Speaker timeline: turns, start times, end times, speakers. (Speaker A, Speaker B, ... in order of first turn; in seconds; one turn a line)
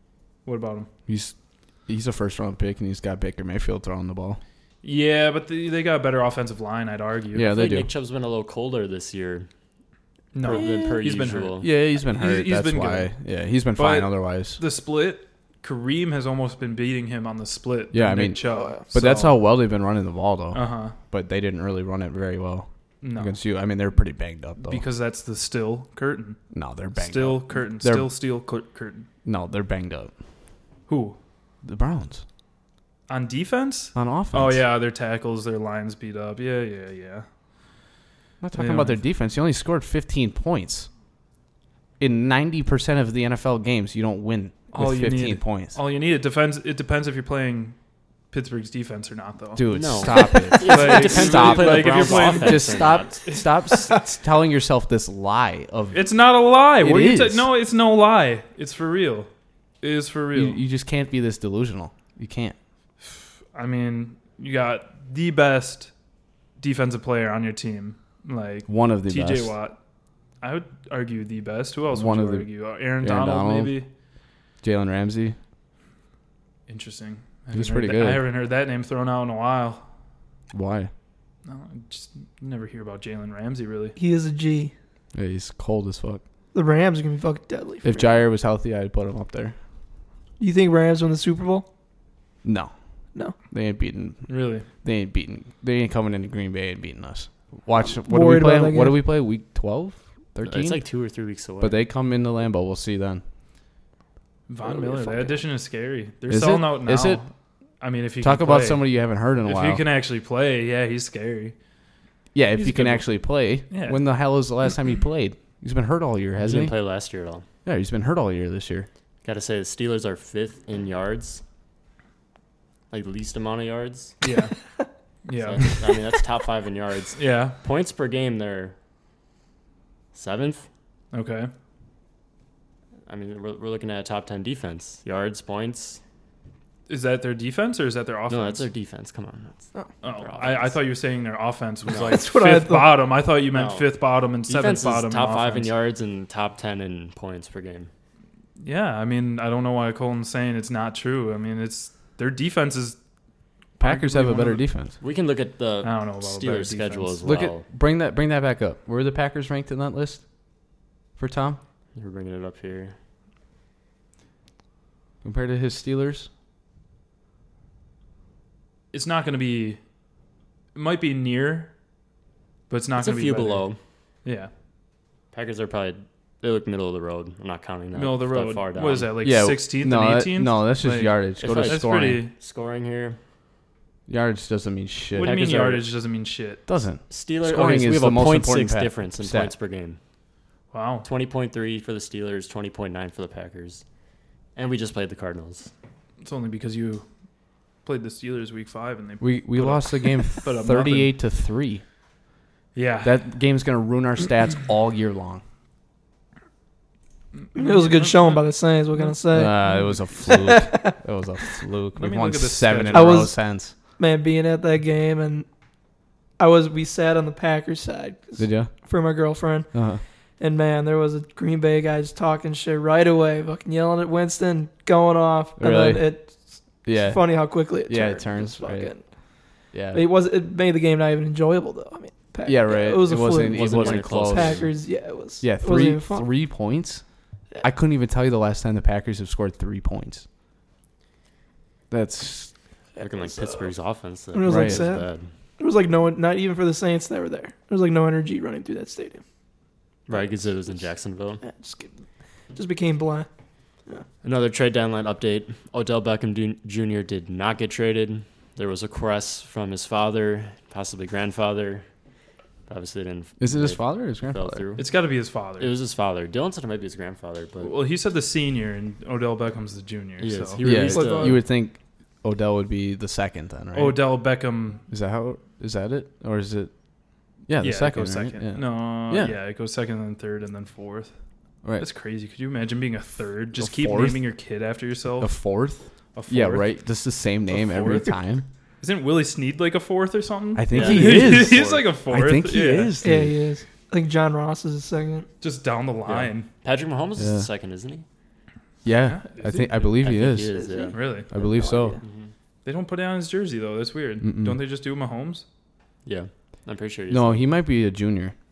Speaker A: 0.5-0.9
Speaker B: 1.1-1.4
Speaker B: 1.9-4.4
Speaker A: 4.8-7.6
Speaker B: 7.3-7.9
Speaker C: 7.5-9.5
Speaker A: 10.3-13.1
Speaker C: 10.4-11.7
Speaker B: 10.5-14.6
Speaker A: 13.8-19.4
Speaker B: 17.9-24.8
Speaker D: 18.4-18.8
Speaker A: 20.5-20.9
Speaker A: 23.0-23.4
Speaker A: 24.6-26.4
Speaker B: 26.5-28.1
Speaker A: 26.9-29.1
Speaker B: 29.2-30.1
Speaker A: 30.9-31.2
Speaker B: 31.6-32.2
Speaker A: 33.1-37.3
Speaker B: 34.0-34.6
Speaker B: 38.4-40.9
Speaker A: 38.5-39.0
Speaker B: 42.0-45.8
Speaker A: 44.7-47.8
Speaker A: 48.3-49.9
Speaker B: 49.6-56.1
Speaker C: 49.7-53.2
Speaker D: 50.2-50.5
Speaker A: 50.6-53.9
Speaker D: 53.6-54.0
Speaker A: 55.9-59.3
Speaker B: 56.8-57.5
Speaker A: 59.8-60.6
Speaker B: 60.3-62.6
Speaker A: 63.0-65.9
Speaker A: 66.6-69.8
Speaker B: 68.7-69.5
Speaker A: 70.4-73.9
Speaker B: 71.9-73.8
Speaker B: 74.6-75.4
Speaker A: 76.7-79.9
Speaker B: 77.5-78.2
Speaker B: 80.5-80.9
Speaker A: 81.4-84.0
Speaker D: 84.0-84.7
Speaker B: 85.2-86.2
Speaker D: 86.5-88.2
Speaker B: 87.8-89.6
Speaker D: 90.4-91.7
Speaker B: 92.4-92.7
Speaker B: 93.5-100.8
Speaker A: 94.3-94.7
Speaker D: 98.1-99.0
Speaker C: 100.4-101.8
Speaker B: 101.6-103.2
Speaker A: 104.5-107.3
Speaker D: 104.7-105.4
Speaker B: 106.3-107.2
Speaker A: 107.8-108.9
Speaker B: 108.2-109.8
Speaker A: 109.4-111.6
Speaker B: 112.3-116.7
Speaker A: 112.6-113.2
Speaker A: 113.7-114.0
Speaker C: 116.4-117.5
Speaker B: 117.7-118.9
Speaker C: 119.2-121.4
Speaker C: 122.9-124.2
Speaker A: 124.2-124.6
Speaker A: 125.2-125.9
Speaker C: 125.4-128.8
Speaker A: 127.2-127.6
Speaker C: 130.1-130.7
Speaker A: 131.1-131.5
Speaker C: 133.1-136.0
Speaker A: 136.9-138.7
Speaker C: 138.3-140.8
Speaker A: 140.0-145.7
Speaker C: 141.9-142.2
Speaker D: 142.0-143.1
Speaker C: 143.5-143.9
Speaker C: 144.4-147.9
Speaker A: 148.6-153.0
Speaker A: 153.8-154.7
Speaker B: 153.8-154.9
Speaker C: 155.0-157.7
Speaker A: 155.8-157.2
Speaker B: 157.2-160.2
Speaker B: 161.2-161.6
Speaker C: 161.9-163.0
Speaker B: 165.2-166.3
Speaker A: 168.9-169.8
Speaker A: 170.8-171.7
Speaker A: 172.7-173.7
Speaker C: 173.0-173.8
Speaker A: 174.2-174.5
Speaker C: 175.3-179.1
Speaker A: 177.9-182.3
Speaker B: 179.2-182.2
Speaker C: 181.4-183.2
Speaker B: 184.1-185.4
Speaker A: 185.1-186.6
Speaker C: 185.2-185.9
Speaker B: 186.7-189.5
Speaker C: 187.1-190.0
Speaker A: 190.7-191.1
Speaker C: 191.0-193.8
Speaker C: 194.6-195.7
Speaker A: 196.2-197.1
Speaker A: 197.8-201.2
Speaker B: 199.2-201.8
Speaker A: 202.8-203.2
Speaker B: 203.0-205.4
Speaker A: 207.4-209.2
Speaker D: 207.6-211.0
Speaker B: 209.3-213.7
Speaker A: 212.0-213.2
Speaker D: 212.9-215.5
Speaker D: 216.4-229.3
Speaker B: 218.4-218.7
Speaker B: 219.7-220.0
Speaker B: 225.6-226.3
Speaker B: 226.8-228.9
Speaker B: 229.7-230.1
Speaker D: 229.9-236.3
Speaker B: 232.4-234.8
Speaker C: 233.3-234.7
Speaker B: 235.4-237.0
Speaker B: 237.6-240.3
Speaker B: 241.9-242.5
Speaker C: 243.0-245.3
Speaker D: 243.3-243.6
Speaker D: 244.3-249.2
Speaker B: 244.4-244.9
Speaker C: 250.1-251.4
Speaker D: 251.4-252.0
Speaker D: 252.5-253.3
Speaker C: 254.2-261.9
Speaker C: 262.7-264.9
Speaker B: 263.4-264.6
Speaker A: 264.8-265.7
Speaker C: 265.6-267.7
Speaker A: 267.6-271.4
Speaker C: 270.2-271.4
Speaker B: 270.6-274.0
Speaker A: 273.7-274.8
Speaker B: 274.9-276.7
Speaker B: 277.5-279.4
Speaker A: 277.6-281.1
Speaker A: 281.8-285.4
Speaker B: 283.6-284.2
Speaker B: 285.2-288.5
Speaker A: 286.1-286.7
Speaker A: 287.5-288.2
Speaker A: 288.8-293.0
Speaker B: 290.6-293.4
Speaker C: 290.7-291.3
Speaker D: 293.0-295.3
Speaker A: 295.4-296.5
Speaker C: 296.1-298.1
Speaker B: 297.2-297.5
Speaker B: 298.8-300.7
Speaker A: 299.1-299.9
Speaker C: 300.0-302.3
Speaker D: 300.5-302.0
Speaker A: 300.9-301.3
Speaker B: 301.3-302.0
Speaker A: 302.6-305.4
Speaker B: 304.2-304.6
Speaker C: 306.1-307.5
Speaker B: 307.1-308.4